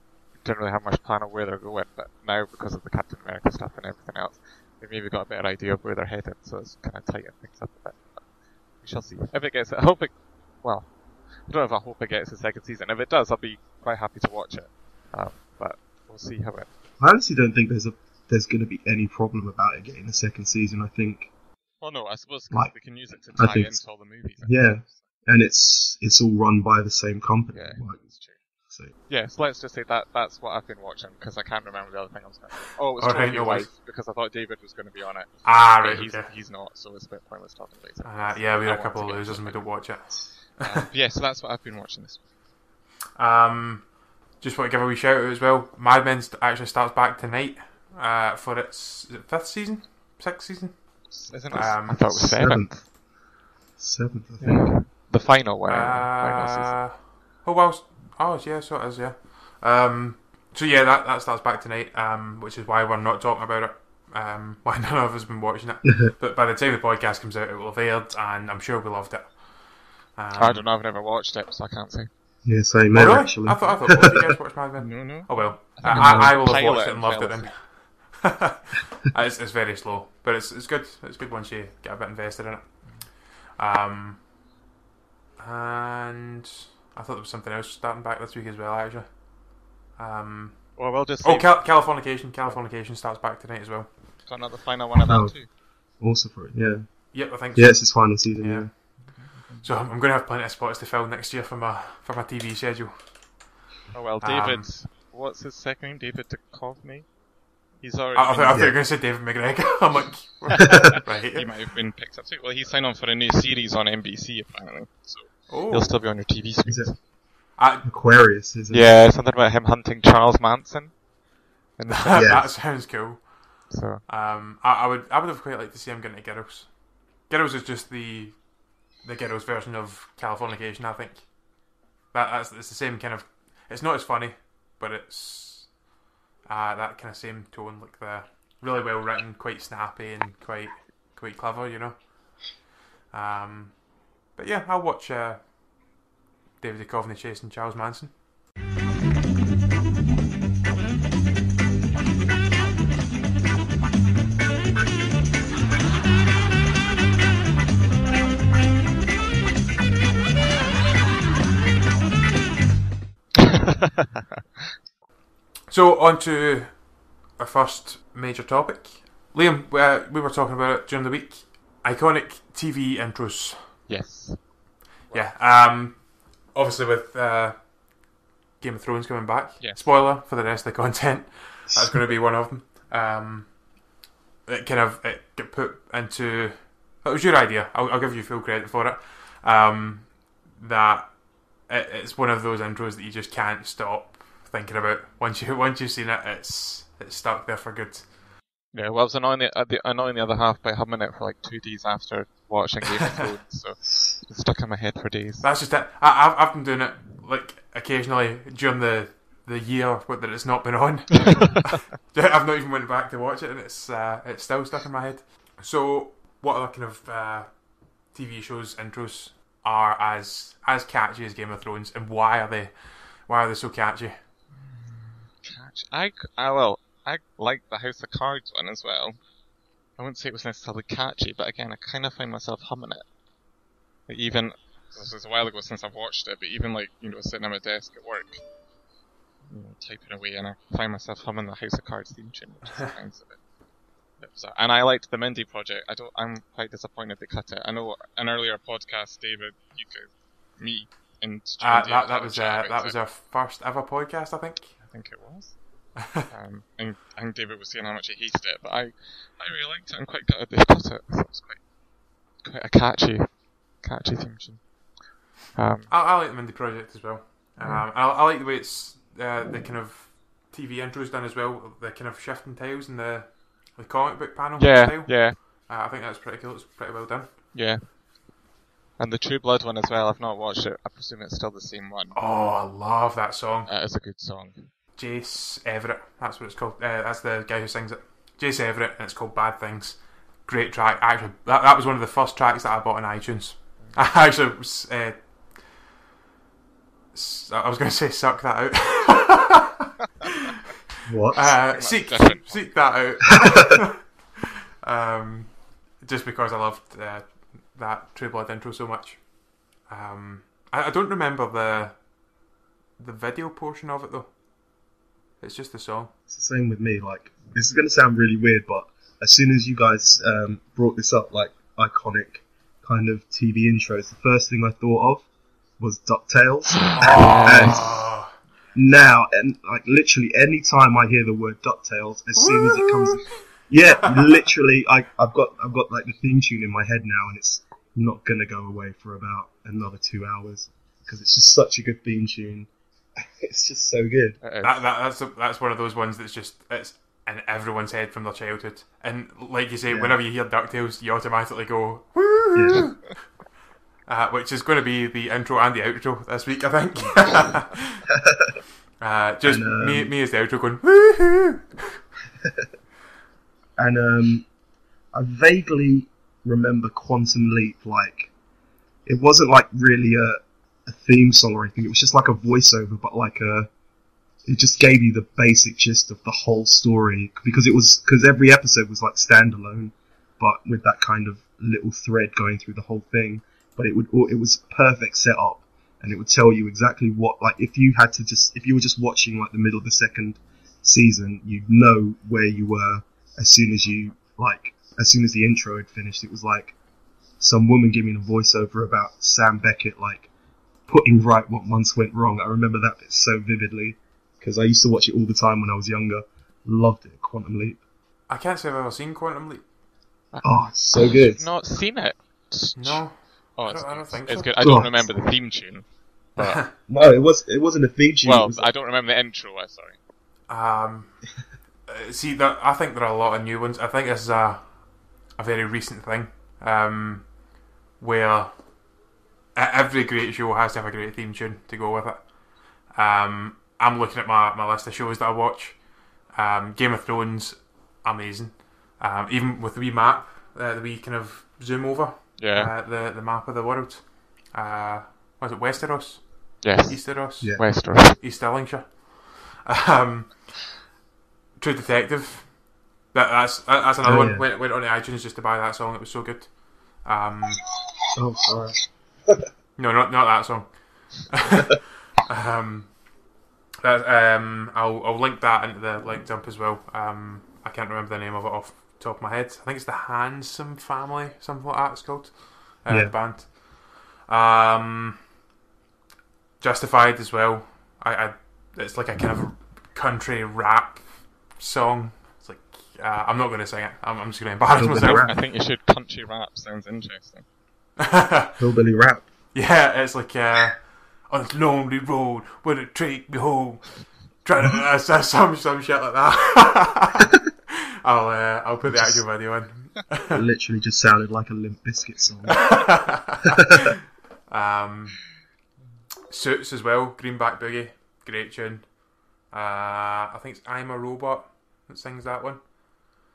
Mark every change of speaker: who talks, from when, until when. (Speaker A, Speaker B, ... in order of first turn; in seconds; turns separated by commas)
Speaker A: 0.3-16.7, Speaker B: 17.0-21.3, Speaker A: 21.8-25.0, Speaker B: 22.5-28.9, Speaker A: 27.5-28.4, Speaker A: 29.1-42.3, Speaker C: 33.0-33.7, Speaker C: 35.4-36.3, Speaker C: 38.0-40.7, Speaker C: 43.2-52.3, Speaker A: 51.1-52.9, Speaker B: 52.1-53.0, Speaker B: 53.8-54.8, Speaker A: 54.4-56.8, Speaker C: 55.7-70.6, Speaker B: 65.8-66.1, Speaker A: 70.4-72.1, Speaker B: 72.5-74.3, Speaker C: 72.9-84.3, Speaker A: 74.8-77.6, Speaker B: 75.8-76.4, Speaker A: 82.8-83.1, Speaker C: 85.4-93.9, Speaker A: 90.8-92.6, Speaker A: 94.2-95.5, Speaker B: 95.0-98.7, Speaker C: 97.1-103.5, Speaker A: 99.0-99.7, Speaker A: 103.9-107.2, Speaker C: 104.2-104.7, Speaker A: 107.7-108.7, Speaker C: 108.2-111.5, Speaker B: 108.5-108.8, Speaker A: 110.5-117.0, Speaker C: 115.5-116.0, Speaker B: 116.7-119.0, Speaker C: 117.6-118.0, Speaker A: 118.7-121.0, Speaker A: 121.8-122.6, Speaker C: 121.9-135.9, Speaker B: 122.1-122.5, Speaker A: 123.7-124.0, Speaker C: 136.4-145.6, Speaker C: 146.6-148.2, Speaker C: 165.7-173.9, Speaker A: 173.9-175.3, Speaker C: 175.1-178.1, Speaker C: 178.6-183.7, Speaker C: 184.5-198.1, Speaker A: 198.7-205.5, Speaker C: 205.4-224.2, Speaker A: 211.4-211.8, Speaker A: 224.6-229.3, Speaker A: 229.9-233.1, Speaker A: 234.1-238.5, Speaker A: 239.5-243.4, Speaker A: 244.1-253.0, Speaker C: 251.6-254.8, Speaker A: 254.8-261.7, Speaker C: 256.0-256.2, Speaker A: 262.4-265.0, Speaker A: 265.5-265.9, Speaker C: 265.9-277.4, Speaker A: 274.6-275.4, Speaker A: 277.5-278.1, Speaker A: 279.0-282.2, Speaker C: 282.1-283.7, Speaker A: 283.7-284.7, Speaker C: 285.0-295.8, Speaker C: 297.1-299.7, Speaker B: 301.1-301.6, Speaker C: 301.3-304.1, Speaker A: 301.5-302.9, Speaker C: 304.8-312.1, Speaker C: 313.0-314.3, Speaker C: 315.4-316.1, Speaker B: 316.3-325.3, Speaker B: 325.8-328.1, Speaker C: 326.9-328.4, Speaker A: 327.0-328.0, Speaker B: 328.7-344.4, Speaker C: 332.4-333.3, Speaker C: 333.9-334.3, Speaker A: 344.4-344.9, Speaker C: 344.6-353.2, Speaker B: 349.9-350.2, Speaker B: 352.5-353.0, Speaker C: 354.1-358.1, Speaker B: 358.2-358.6, Speaker C: 359.0-362.0, Speaker B: 359.4-360.1, Speaker B: 363.8-364.5, Speaker B: 365.1-368.3, Speaker B: 369.1-373.7, Speaker B: 374.4-396.8, Speaker B: 397.4-400.3, Speaker B: 400.9-407.8, Speaker C: 408.3-409.6, Speaker A: 410.3-416.7, Speaker B: 410.4-411.4, Speaker C: 412.8-414.8, Speaker B: 414.6-415.1, Speaker C: 416.4-416.7, Speaker B: 416.8-418.7, Speaker A: 418.2-420.0, Speaker C: 420.5-421.3, Speaker C: 421.9-427.4, Speaker C: 428.0-428.8, Speaker C: 429.6-450.8, Speaker A: 442.4-442.7, Speaker A: 446.6-448.2, Speaker C: 451.6-457.7, Speaker B: 454.0-454.5, Speaker B: 458.1-459.3, Speaker C: 459.8-463.0, Speaker C: 463.8-475.3, Speaker B: 472.9-473.2, Speaker C: 476.6-485.4, Speaker B: 484.8-485.4, Speaker A: 484.9-487.5, Speaker C: 488.0-488.6, Speaker B: 488.6-489.3, Speaker C: 489.5-500.4, Speaker B: 498.8-499.3, Speaker B: 500.3-503.9, Speaker C: 502.5-503.8, Speaker C: 504.5-505.4, Speaker C: 506.3-513.0